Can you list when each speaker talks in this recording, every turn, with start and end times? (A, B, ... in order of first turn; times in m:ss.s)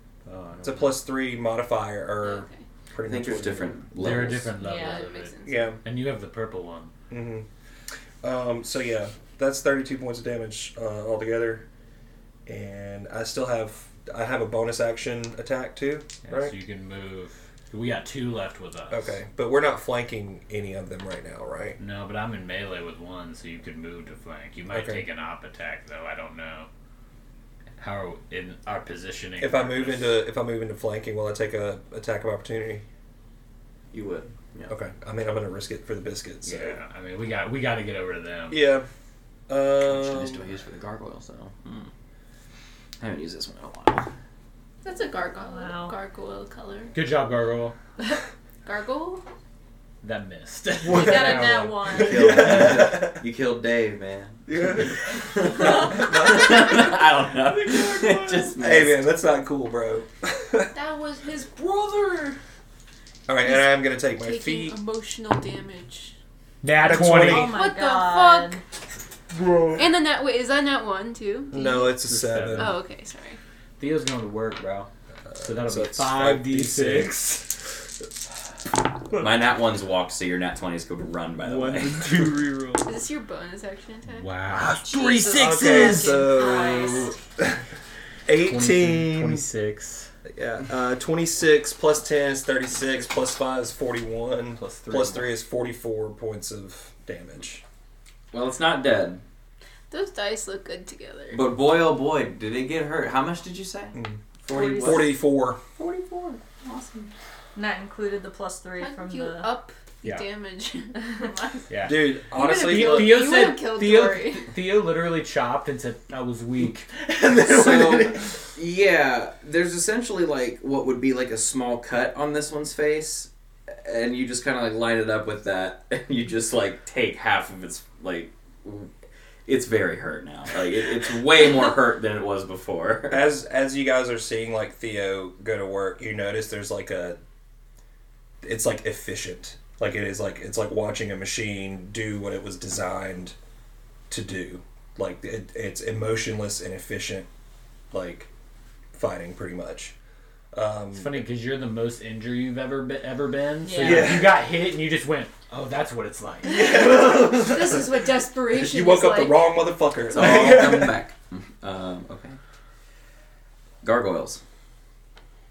0:00.3-0:01.0 A
0:00.6-0:03.8 B
0:02.2-0:02.6 C
0:03.0-0:04.5 D
0:03.9-0:06.9 A
0:04.6-0:05.7 C
0:04.6-0:05.1 E
0:05.4-0:05.8 B
0:07.1-0:07.5 B
0:08.2-0:11.6 B
0:12.5-0:16.6 B
0:16.2-0:19.2 A
0:18.9-0:21.8 B
0:21.8-0:26.7 A
0:24.7-0:25.0 B
0:27.8-0:30.2 A
0:29.4-0:32.8 B
0:33.9-0:34.8 D
0:34.7-0:36.8 B
0:36.4-0:38.6 A
0:38.5-0:38.9 B
0:39.5-0:40.5 B
0:39.9-0:41.9 D
0:43.0-0:44.1 D
0:44.8-0:46.9 C
0:45.4-0:46.0 E
0:46.9-0:47.8 A
0:48.6-0:49.2 C
0:50.0-0:52.7 A
0:50.9-0:53.2 B
0:50.9-0:52.4 E
0:52.0-0:59.1 D
0:54.5-0:56.8 B
0:57.3-0:58.6 A
0:58.6-1:00.7 B
1:00.7-1:02.4 C
1:03.3-1:04.8 B
1:03.4-1:06.2 C
1:06.6-1:07.5 A
1:06.8-1:07.6 B
1:06.8-1:08.6 E
1:07.3-1:08.6 C
1:09.3-1:09.9 A
1:09.8-1:12.0 C
1:11.5-1:12.8 B
1:12.0-1:12.8 A
1:12.6-1:13.4 C
1:13.8-1:17.3 A
1:15.3-1:17.5 B
1:19.1-1:22.2 D
1:21.4-1:22.8 A
1:22.0-1:22.4 B
1:22.8-1:24.3 C
1:24.2-1:26.3 A
1:24.5-1:27.6 B
1:24.8-1:27.2 E
1:25.3-1:27.1 C
1:28.3-1:29.5 B
1:28.3-1:30.1 A
1:30.3-1:37.6 B
1:34.6-1:35.3 D
1:38.3-1:39.2 D
1:39.9-1:41.4 C
1:41.3-1:45.2 D
1:43.9-1:44.2 B
1:44.5-1:45.1 E
1:44.8-1:45.6 B
1:45.8-1:47.1 D
1:47.6-1:49.5 E
1:48.8-1:51.7 C
1:50.0-1:50.3 A
1:51.7-1:58.4 A
1:51.8-1:53.4 B
1:52.3-1:54.6 C
1:57.3-2:08.9 D
2:09.5-2:13.3 D
2:13.1-2:17.2 B
2:18.4-2:23.4 B
2:24.1-2:27.3 B
2:27.9-2:28.3 B
2:28.9-2:30.0 B
2:30.5-2:31.3 B
2:30.9-2:36.6 A
2:33.6-2:34.2 E
2:33.8-2:34.4 B
2:36.5-2:39.6 C
2:36.5-2:41.0 B
2:40.1-2:42.4 D
2:43.8-2:44.4 D